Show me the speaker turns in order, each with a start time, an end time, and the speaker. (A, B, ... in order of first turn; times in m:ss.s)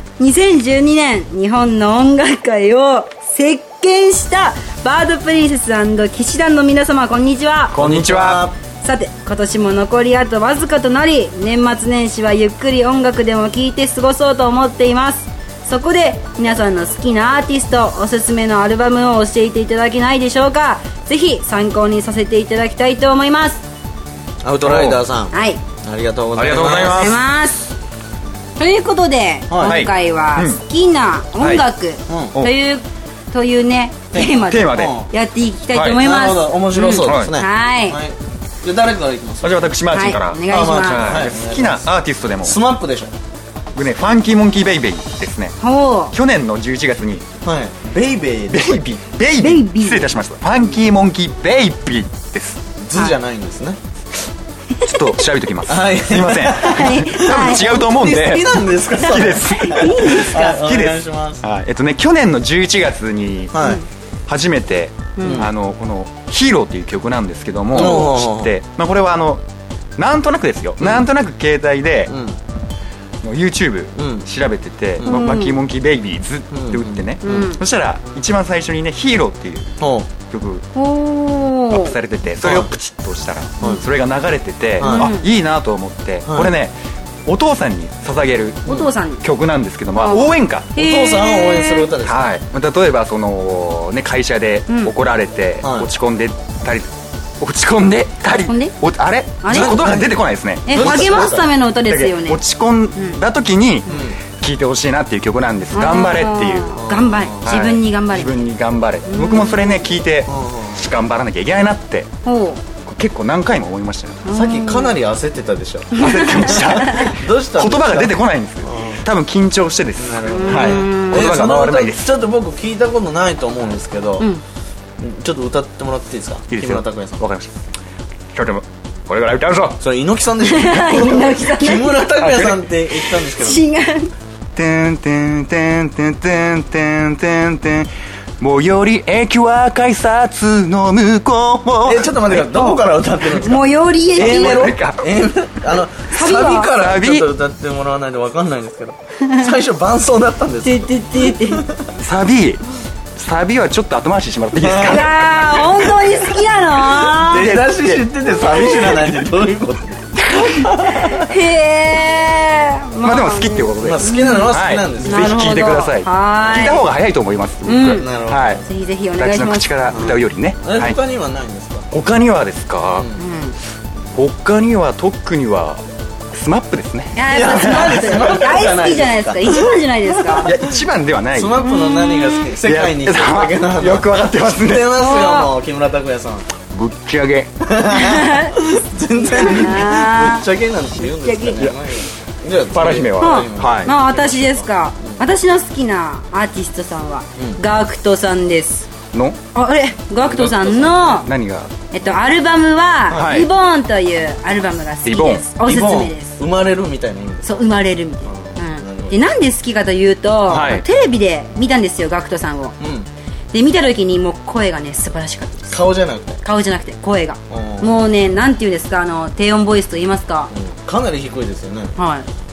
0:00.2-0:07.8 A
0:07.7-0:08.4 B
0:07.8-0:08.6 C
0:08.8-0:23.6 A
0:24.4-0:25.3 C
0:24.6-0:25.0 B
0:25.3-0:25.6 A
0:25.8-0:27.2 C
0:26.4-0:27.2 B
0:26.8-0:27.7 A
0:28.6-0:38.0 A
0:29.5-0:29.8 C
0:29.6-0:30.6 B
0:32.1-0:32.4 C
0:34.1-0:35.1 C
0:34.5-0:35.0 B
0:35.7-0:36.0 B
0:35.9-0:39.7 C
0:37.0-0:37.3 B
0:39.4-0:42.6 B
0:39.9-0:41.2 A
0:40.5-0:41.9 C
0:42.4-0:43.1 C
0:43.8-0:45.6 B
0:45.6-0:46.1 A
0:46.1-0:47.2 B
0:47.4-0:48.8 C
0:48.5-0:52.6 B
0:49.4-0:50.2 A
0:52.8-0:53.8 C
0:54.8-1:03.6 B
0:55.7-1:01.4 C
0:56.6-0:57.8 A
0:59.6-1:00.4 A
1:03.5-1:03.8 C
1:03.6-1:03.8 A
1:04.3-1:09.4 B
1:05.2-1:05.5 A
1:05.2-1:05.5 C
1:07.7-1:08.5 C
1:10.0-1:12.1 B
1:12.1-1:12.4 C
1:13.2-1:19.7 B
1:14.0-1:14.3 C
1:15.0-1:15.6 A
1:16.5-1:17.5 C
1:17.2-1:17.6 A
1:19.8-1:20.1 C
1:20.3-1:20.6 B
1:20.7-1:21.9 A
1:21.7-1:26.7 B
1:22.4-1:22.7 C
1:24.8-1:25.1 C
1:24.8-1:25.3 A
1:26.3-1:26.5 C
1:27.3-1:30.7 B
1:28.7-1:29.2 A
1:29.9-1:31.9 A
1:30.8-1:32.3 C
1:32.0-1:41.2 B
1:34.7-1:34.9 A
1:35.6-1:35.9 C
1:38.4-1:38.7 A
1:39.4-1:39.9 A
1:39.5-1:41.5 C
1:40.7-1:42.4 A
1:41.8-1:46.8 B
1:42.9-1:43.2 A
1:43.9-1:44.2 C
1:45.7-1:48.5 A
1:46.8-1:47.5 C
1:47.4-1:52.1 B
1:49.1-1:49.8 A
1:50.3-1:50.9 C
1:52.2-1:52.6 A
1:52.9-1:54.2 B
1:54.2-1:55.0 A
1:54.3-1:59.0 C
1:56.0-1:57.1 A
1:56.0-2:02.1 B
2:00.0-2:04.3 C
2:00.3-2:01.3 A
2:05.0-2:07.2 C
2:06.5-2:07.6 B
2:08.3-2:09.8 B
2:09.8-2:13.6 C
2:10.4-2:12.1 A
2:12.2-2:12.6 B
2:13.1-2:14.1 A
2:14.6-2:17.9 B
2:18.4-2:22.8 B
2:21.8-2:23.6 C
2:23.4-2:24.7 A
2:24.2-2:31.9 C
2:24.2-2:25.1 B
2:26.1-2:26.7 A
2:26.3-2:27.3 B
2:30.6-2:31.6 A
2:32.0-2:32.6 B
2:33.2-2:36.1 B
2:34.6-2:35.1 C
2:34.7-2:37.5 A
2:37.1-2:41.3 C
2:37.2-2:39.2 B
2:40.9-2:46.9 A
2:43.0-2:48.6 B
2:43.8-2:45.6 C
2:47.7-2:48.1 A
2:48.0-2:48.6 C
2:48.7-2:50.2 A
2:49.2-2:51.0 B
2:49.9-2:51.9 C
2:51.9-2:53.1 B
2:52.9-2:53.2 C
2:53.2-2:53.6 A
2:54.1-2:55.8 B
2:56.3-2:58.3 B
2:57.2-3:00.5 A
2:57.3-3:00.7 C
3:00.4-3:01.6 B
3:01.4-3:06.5 C
3:01.6-3:02.5 A
3:02.6-3:04.9 B
3:05.0-3:05.5 A
3:06.7-3:07.5 B
3:07.6-3:15.2 C
3:07.9-3:08.5 A
3:09.3-3:11.7 A
3:12.7-3:13.9 B
3:13.2-3:18.9 A
3:17.4-3:17.6 C
3:19.1-3:19.4 B
3:19.5-3:21.3 A
3:20.2-3:21.2 C
3:21.2-3:21.7 B
3:21.9-3:26.4 A
3:23.1-3:23.4 C
3:23.1-3:23.5 B
3:25.0-3:25.5 B
3:25.6-3:27.5 C
3:27.4-3:32.8 A
3:28.3-3:29.2 C
3:30.5-3:30.8 B
3:32.8-3:33.1 C
3:33.5-3:35.8 A
3:35.7-3:36.4 C
3:36.4-3:40.5 A
3:37.5-3:38.1 C
3:40.5-3:42.0 C
3:42.0-3:42.3 A